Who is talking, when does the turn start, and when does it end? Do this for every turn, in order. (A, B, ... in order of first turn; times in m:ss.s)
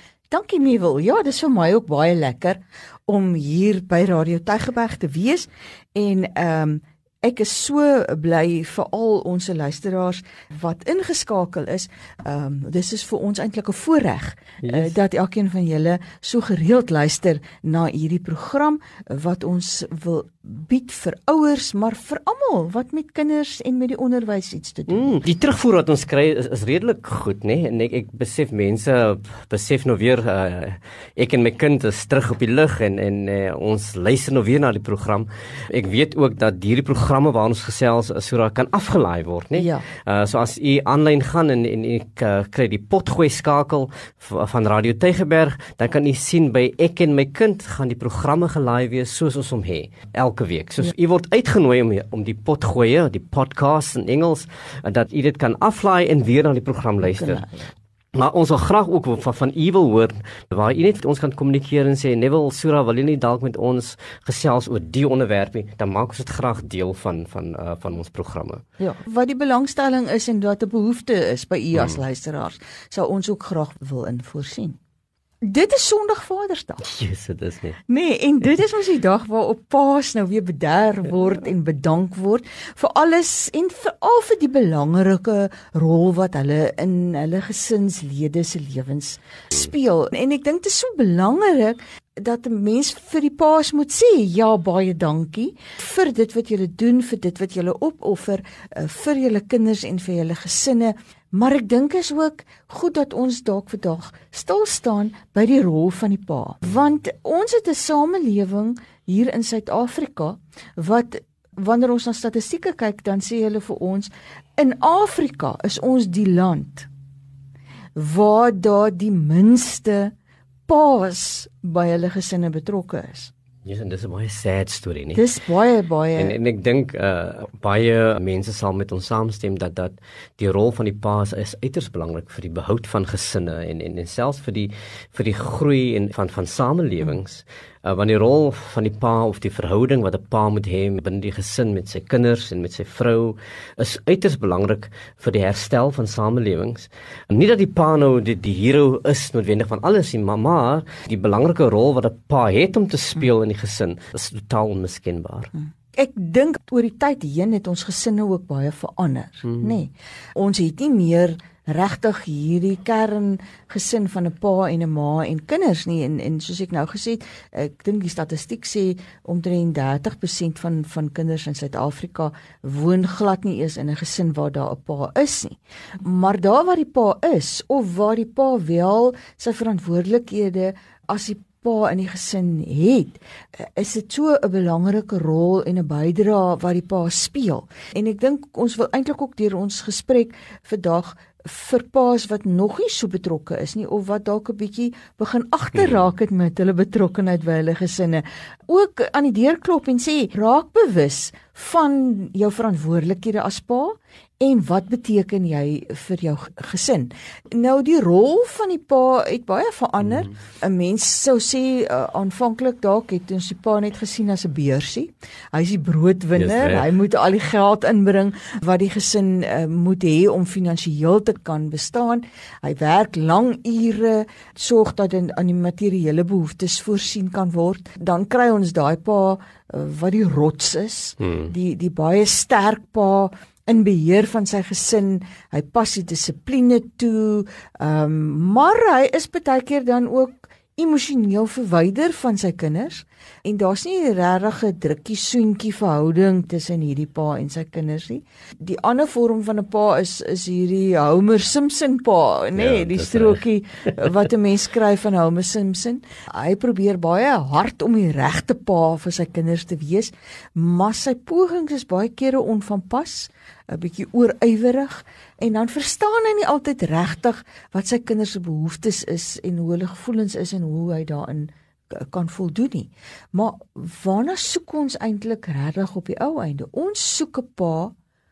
0:00.3-0:25.1 A
0:14.6-0:14.9 B
0:24.9-0:57.4 B
0:39.6-0:39.8 A
0:57.1-0:57.7 A
0:58.1-1:08.6 B
1:08.8-1:14.8 A
1:15.4-1:16.8 A
1:16.8-1:17.8 B
1:17.9-1:56.9 A
1:57.9-2:00.1 A
2:00.7-2:03.3 A
2:03.6-2:05.2 B
2:05.1-2:06.4 A
2:06.2-2:35.5 B
2:35.9-4:37.9 A
3:36.4-3:36.9 B
3:51.2-3:51.5 B
4:12.6-4:13.4 B